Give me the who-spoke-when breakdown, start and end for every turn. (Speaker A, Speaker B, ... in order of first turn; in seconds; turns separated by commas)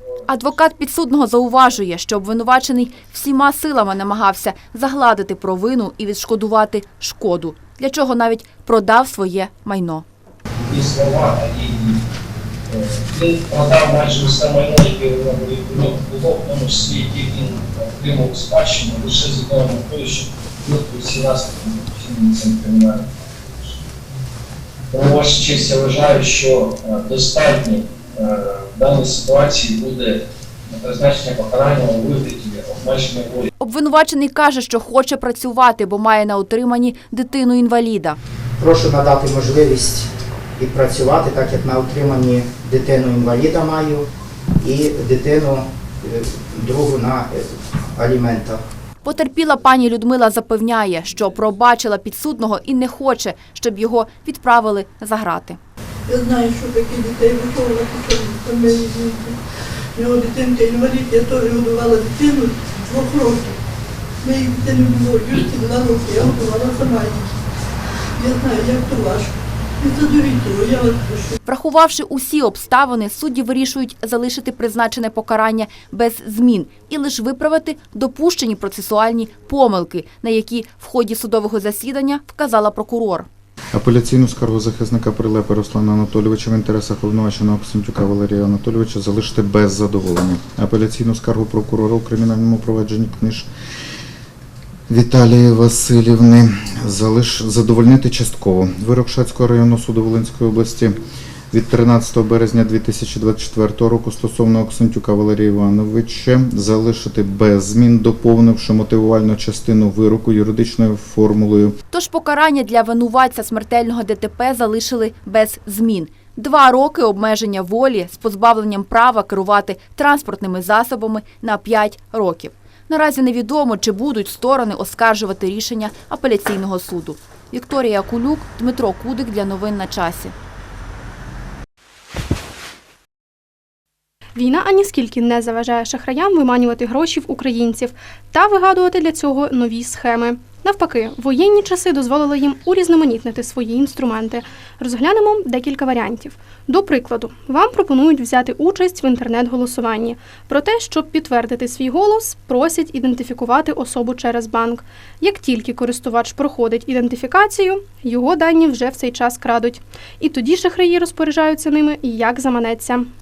Speaker A: 0.3-10.0, Speaker B: 10.6-12.0, Speaker B: 12.7-23.7, Speaker B: 24.9-33.5, Speaker A: 33.6-38.2, Speaker C: 38.6-44.0, Speaker C: 44.6-48.6, Speaker A: 49.0-55.6, Speaker D: 56.1-59.4, Speaker D: 60.0-63.6, Speaker D: 64.2-67.3, Speaker D: 68.2-71.4, Speaker A: 71.4-83.3, Speaker E: 83.7-93.5, Speaker E: 94.9-101.0, Speaker E: 101.5-111.8, Speaker A: 111.9-130.3, Speaker F: 134.3-163.1